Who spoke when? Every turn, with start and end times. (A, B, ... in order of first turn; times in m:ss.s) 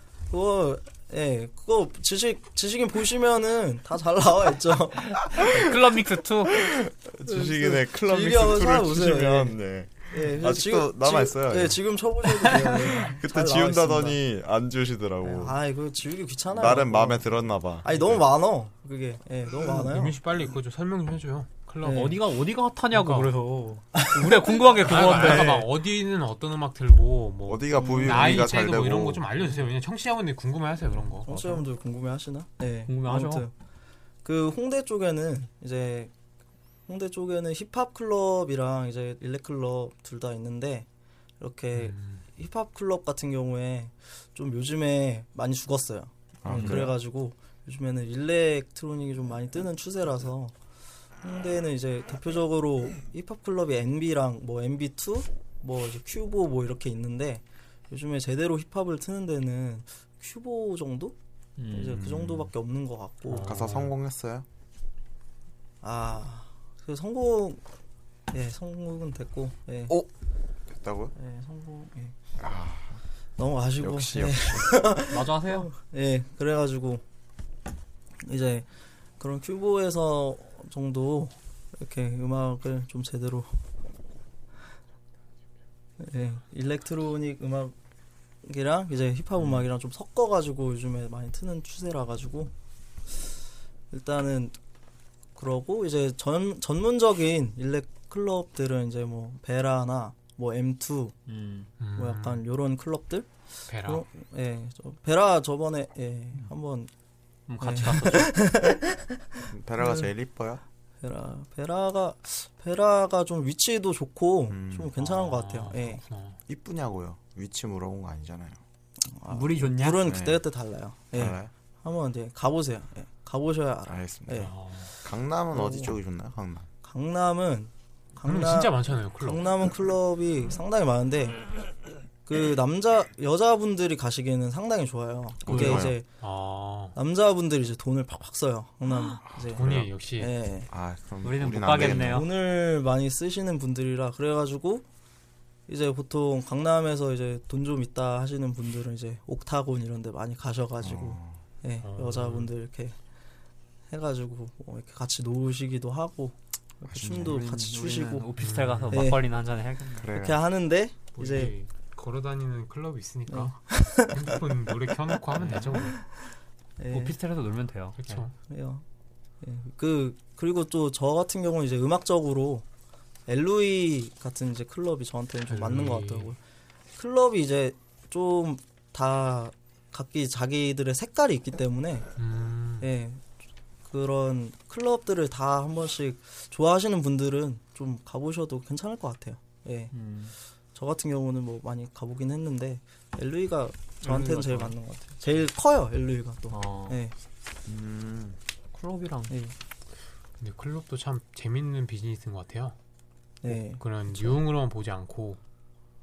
0:00.3-0:05.7 A
0:05.5-0:06.6 B
0:06.5-0:11.8 C
0:07.2-0:09.6 A
0:10.1-0:14.2 A
0:13.0-0:15.6 C
0:15.2-0:20.2 A
0:16.5-0:18.2 C
0:19.5-0:22.2 D
0:21.8-0:22.2 A
0:21.8-0:25.7 B
0:22.9-0:23.3 D
0:24.0-0:24.8 A
0:24.8-0:31.3 D
0:27.5-0:29.2 C
0:27.8-0:28.4 A
0:31.2-0:33.5 A
0:31.3-0:31.6 B
0:32.9-0:33.4 B
0:34.2-0:36.1 A
0:36.9-0:40.9 A
0:41.4-0:50.5 A
0:41.7-0:42.2 D
0:46.4-0:46.9 C
0:46.5-0:46.9 B
0:51.2-1:01.2 A
1:01.6-1:02.0 B
1:01.7-1:03.6 A
1:01.8-1:02.5 C
1:03.3-1:03.9 B
1:03.4-1:04.4 C
1:05.8-1:07.6 A
1:08.3-1:10.0 A
1:10.7-1:11.1 C
1:11.2-1:12.1 A
1:12.4-1:13.0 C
1:13.4-1:17.0 A
1:13.8-1:14.8 C
1:15.1-1:15.7 B
1:18.2-1:18.6 A
1:19.2-1:23.6 A
1:26.0-1:27.7 A
1:28.4-1:32.5 A
1:29.4-1:29.6 B
1:33.9-1:34.5 A
1:35.4-1:41.1 A
1:41.3-1:41.7 B
1:41.8-1:42.4 D
1:42.0-1:46.9 A
1:43.7-1:44.0 D
1:47.5-1:48.3 B
1:47.6-1:50.1 A
1:49.5-1:50.6 C
1:51.0-1:56.0 A
1:54.5-1:54.9 C
1:55.0-1:56.4 D
1:56.5-1:58.6 C
1:59.1-2:04.5 A
1:59.3-2:00.1 B
2:00.0-2:00.4 C
2:01.1-2:01.5 C
2:03.9-2:04.5 C
2:04.4-2:04.9 D
2:05.0-2:06.7 C
2:05.5-2:06.0 A
2:06.8-2:11.5 A
2:08.2-2:09.5 D
2:12.2-2:16.1 A
2:15.4-2:16.0 C
2:15.5-2:15.8 B
2:16.2-2:17.0 D
2:16.9-2:20.7 A
2:19.2-2:19.9 C
2:19.5-2:20.3 D
2:20.7-2:22.3 C
2:21.2-2:22.3 B
2:21.7-2:24.8 A
2:25.7-2:33.0 A
2:30.8-2:31.4 C
2:31.8-2:32.5 D
2:33.9-2:38.3 A
2:36.9-2:37.4 C
2:37.2-2:40.1 B
2:38.4-2:38.9 D
2:38.9-2:39.2 A
2:40.0-2:40.4 C
2:40.1-2:41.5 A
2:41.2-2:46.0 D
2:43.3-2:44.4 A
2:45.4-2:45.8 B
2:45.8-2:46.1 A
2:46.8-2:47.2 A
2:46.9-2:48.2 B
2:48.0-2:48.3 D
2:48.5-2:48.8 A
2:49.4-2:52.6 A
2:53.3-2:56.4 A
2:55.5-2:56.3 D
2:57.0-3:02.1 A
3:02.2-3:02.8 D
3:02.8-3:03.2 A
3:03.9-3:09.9 A
3:09.9-3:10.3 B
3:10.7-3:17.1 A
3:14.0-3:14.7 B
3:16.5-3:17.0 B
3:17.6-3:18.4 C
3:18.7-3:19.3 B
3:19.3-3:19.5 A
3:20.4-3:22.7 D
3:23.4-3:24.4 A
3:23.5-3:25.4 D